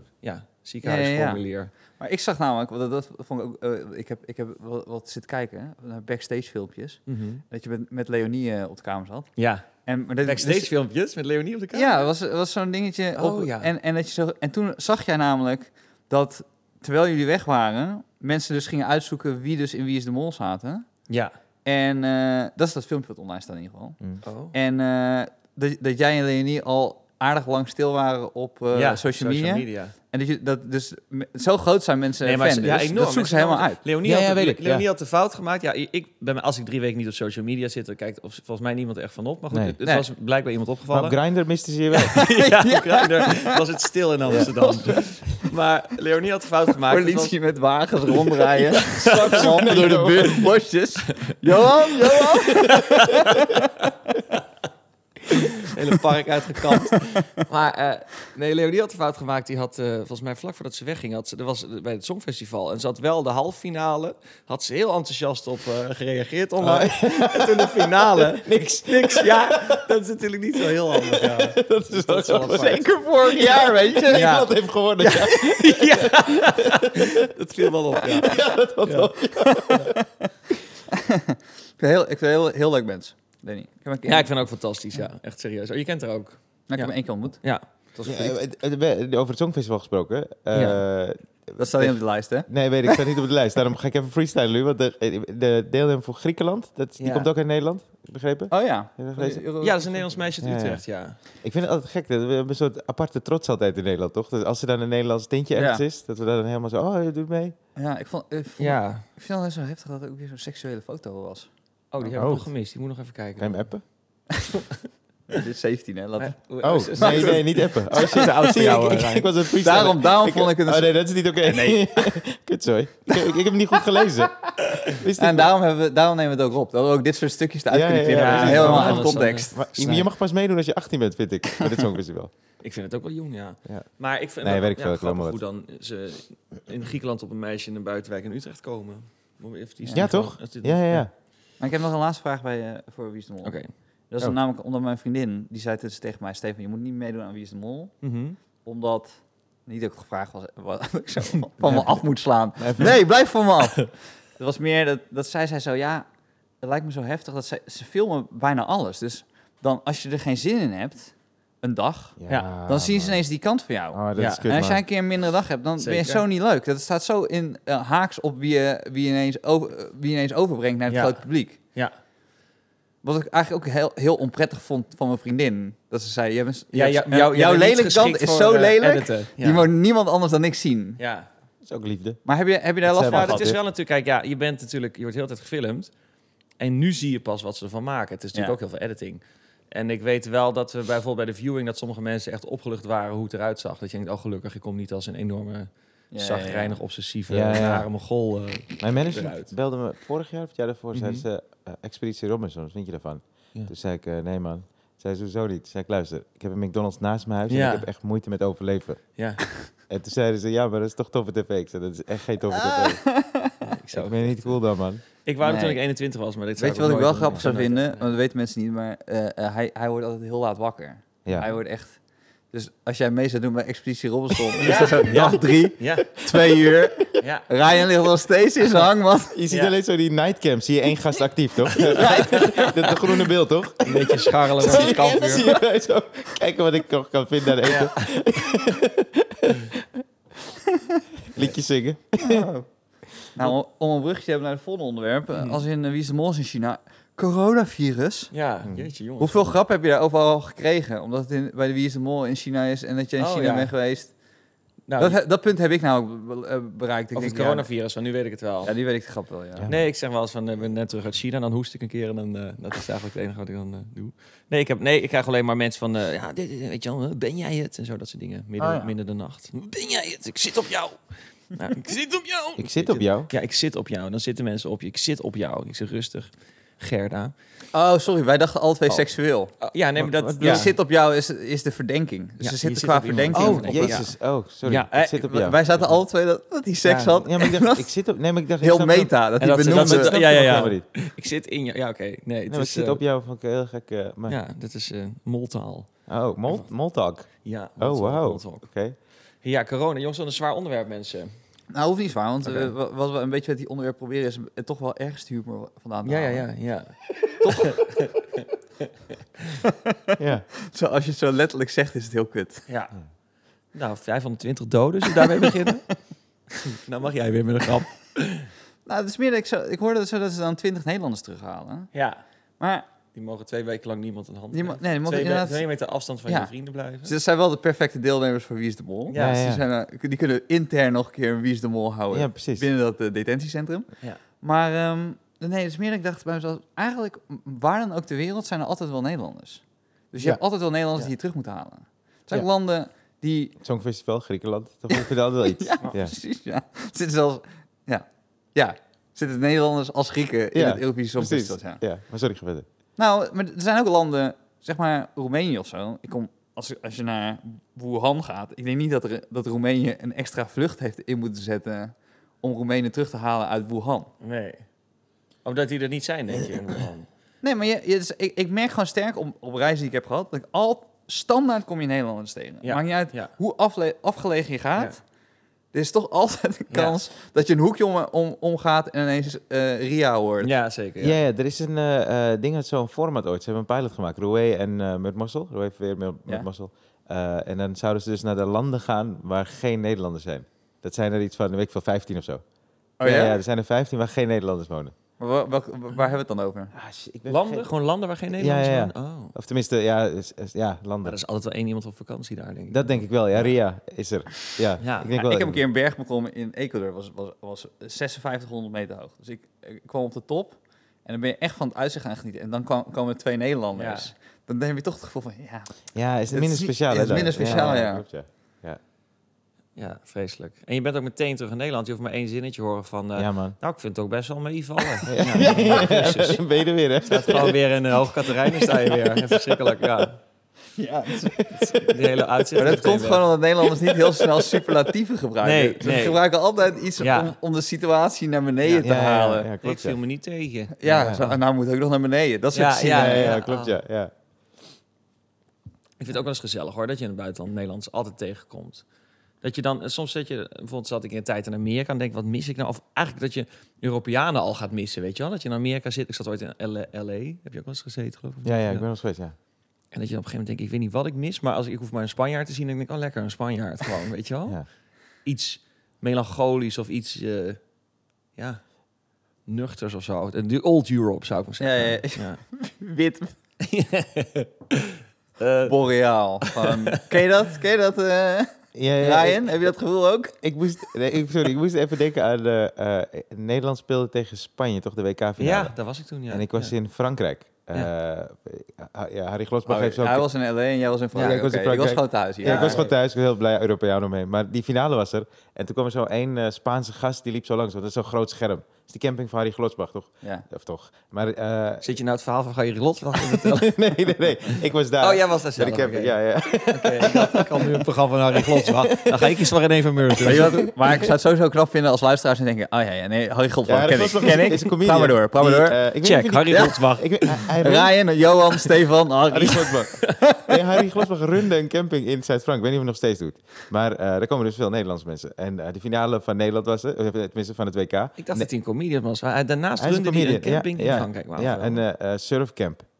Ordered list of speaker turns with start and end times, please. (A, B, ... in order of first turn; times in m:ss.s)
0:00.2-0:01.7 A
0:00.8-0:01.4 B
0:02.0-0:09.3 B
0:07.1-0:07.4 A
0:09.4-0:09.7 A
0:09.8-0:10.7 B
0:10.2-0:12.1 A
0:11.7-0:20.9 B
0:13.2-0:13.7 A
0:21.1-0:21.3 A
0:21.6-0:24.0 B
0:24.2-0:24.5 A
0:24.5-0:33.8 B
0:28.7-0:29.9 A
0:32.2-0:41.2 A
0:34.0-0:34.8 C
0:39.5-0:39.8 C
0:40.9-0:42.2 C
0:42.0-0:43.6 B
0:42.1-0:47.3 A
0:44.3-0:45.0 B
0:46.8-0:53.6 B
0:48.2-0:49.4 A
0:49.0-0:50.4 C
0:52.6-0:53.5 A
0:55.3-1:12.9 A
1:06.6-1:09.8 C
1:10.6-1:17.3 C
1:12.5-1:14.4 B
1:14.1-1:14.5 A
1:15.0-1:15.3 B
1:15.2-1:19.1 A
1:18.2-1:19.9 C
1:19.4-1:20.0 B
1:19.7-1:19.9 A
1:20.9-1:24.3 B
1:24.0-1:27.6 A
1:26.7-1:27.4 B
1:27.9-1:28.4 B
1:28.0-1:39.4 C
1:30.5-1:30.8 A
1:31.6-1:33.0 B
1:37.0-1:37.3 A
1:38.5-1:40.3 B
1:39.6-1:41.2 A
1:40.4-1:40.8 C
1:41.4-1:47.5 C
1:45.5-1:45.8 B
1:47.8-1:51.5 B
1:48.6-1:49.0 A
1:51.9-1:53.7 A
1:52.1-1:52.5 C
1:53.4-1:53.8 C
1:54.5-1:54.8 A
1:55.3-1:56.4 B
1:56.2-1:59.4 A
1:56.6-2:05.5 C
1:57.0-1:58.5 B
1:59.6-2:00.9 B
2:01.4-2:02.2 B
2:03.1-2:04.5 B
2:05.2-2:09.9 B
2:07.7-2:12.3 C
2:08.1-2:10.0 A
2:12.6-2:21.1 A
2:14.4-2:15.4 C
2:19.8-2:20.1 B
2:19.9-2:21.1 C
2:21.6-2:23.6 B
2:23.4-2:23.7 A
2:24.1-2:27.9 B
2:28.0-2:28.4 A
2:28.6-2:36.0 B
2:31.6-2:32.0 C
2:32.6-2:32.9 C
2:36.6-2:51.6 B
2:42.2-2:43.2 C
2:43.9-2:44.8 C
2:44.2-2:44.5 A
2:45.8-2:46.2 A
2:50.9-2:51.2 A
2:53.0-3:01.0 B
2:56.7-2:59.7 A
3:01.0-3:01.3 A
3:01.6-3:02.2 C
3:02.2-3:03.5 B
3:02.8-3:03.6 C
3:03.0-3:05.9 A
3:06.6-3:19.5 A
3:16.1-3:16.8 B
3:17.3-3:17.9 C
3:18.8-3:33.0 C
3:20.9-3:21.2 A
3:27.5-3:27.9 A
3:29.2-3:29.4 A
3:32.5-3:33.6 B
3:33.6-3:34.6 A
3:33.9-3:35.0 C
3:35.2-3:38.1 A
3:35.4-3:35.8 B
3:36.6-3:42.0 B
3:42.5-3:49.4 B
3:44.6-3:46.2 A
3:46.3-3:46.6 C
3:47.2-3:47.4 A
3:49.3-4:00.0 C
3:49.5-3:49.7 A
3:51.7-3:53.3 A
3:51.9-3:52.7 B
3:53.8-3:55.4 A
3:54.6-3:55.6 B
3:57.6-3:57.9 A
4:01.3-4:02.5 C
4:02.2-4:02.7 B
4:03.4-4:08.3 B
4:05.4-4:05.6 A
4:08.3-4:09.5 A
4:08.6-4:08.9 C
4:09.2-4:14.1 B
4:13.2-4:13.7 A
4:14.9-4:15.2 A
4:15.0-4:17.7 B
4:17.2-4:18.7 A
4:18.6-4:19.7 B
4:19.6-4:19.9 C
4:19.7-4:37.3 A
4:28.6-4:28.9 B
4:32.6-4:33.3 C
4:37.7-4:39.5 B
4:39.6-4:40.7 A
4:40.0-4:40.7 C
4:40.4-4:44.1 B
4:42.4-4:44.1 A
4:43.3-4:45.9 C
4:44.6-4:44.9 A
4:44.9-4:47.9 B
4:46.8-4:47.2 A
4:47.2-4:49.1 C
4:48.6-4:50.7 B
4:49.4-4:53.0 A
4:49.7-4:50.8 C
4:52.5-4:54.4 C
4:54.3-4:55.9 A
4:56.1-4:58.9 C
4:57.4-4:58.6 A
4:59.4-5:01.3 A
5:01.7-5:06.5 B
5:02.4-5:02.7 A
5:06.0-5:08.4 A
5:07.4-5:07.8 B
5:09.6-5:12.6 B
5:10.2-5:10.4 C
5:12.7-5:13.0 A
5:13.7-5:16.0 A
5:16.5-5:18.5 A
5:18.8-5:21.9 B
5:21.9-5:22.2 A
5:22.6-5:22.9 B
5:23.1-5:27.1 A
5:24.5-5:25.6 B
5:26.2-5:26.5 B
5:27.0-5:33.9 B
5:29.1-5:29.4 A
5:29.1-5:29.6 C
5:32.1-5:32.6 C
5:34.4-5:43.6 B
5:43.6-5:46.1 C
5:44.9-5:51.8 B
5:50.5-5:52.6 C
5:53.0-6:04.1 B
6:04.2-6:04.6 A
6:05.4-6:07.1 A
6:07.4-6:15.0 B
6:12.6-6:13.3 A
6:15.7-6:20.5 B
6:16.7-6:17.0 A
6:20.4-6:21.2 A
6:21.0-6:32.4 C
6:33.0-6:33.4 B
6:33.0-6:34.9 C
6:35.2-6:36.7 B
6:36.7-6:37.7 C
6:37.3-6:39.3 A
6:38.4-6:41.2 C
6:41.0-6:43.5 A
6:42.7-6:45.6 C
6:44.8-6:45.2 A
6:45.1-6:55.7 B
6:53.7-6:54.1 A
6:55.9-6:58.8 C
6:56.3-6:58.0 B
6:59.8-7:06.4 A
7:03.2-7:03.6 C
7:05.1-7:09.2 C
7:05.4-7:05.7 B
7:07.0-7:10.2 A
7:10.8-7:11.4 B
7:11.2-7:12.0 C
7:11.6-7:14.2 A
7:12.6-7:19.5 B
7:15.4-7:16.2 A
7:17.0-7:17.3 A
7:18.6-7:18.9 A
7:18.8-7:20.0 C
7:19.6-7:21.4 A
7:20.8-7:23.3 B
7:20.8-7:21.2 C
7:22.5-7:23.8 A
7:22.8-7:24.1 C
7:26.0-7:28.8 A
7:29.4-7:38.8 A
7:38.4-7:39.3 C
7:39.9-7:44.6 A
7:45.2-7:47.6 A
7:48.4-7:48.6 A
7:49.4-7:52.4 A
7:51.6-7:53.3 B
7:53.6-7:55.8 A
7:55.6-8:00.4 B
7:56.4-7:56.9 A
7:58.7-7:59.5 C
8:00.4-8:05.7 C
8:05.4-8:06.7 A
8:06.3-8:10.3 C
8:09.7-8:12.8 B
8:11.1-8:21.9 C
8:12.4-8:12.9 A
8:21.8-8:23.9 A
8:23.1-8:27.8 C
8:25.0-8:30.7 A
8:28.3-8:29.5 C
8:30.2-8:35.8 B
8:33.7-8:37.9 C
8:36.0-8:37.5 A
8:36.5-8:40.4 B
8:39.3-8:48.5 C
8:48.2-8:51.8 A
8:49.8-8:52.8 C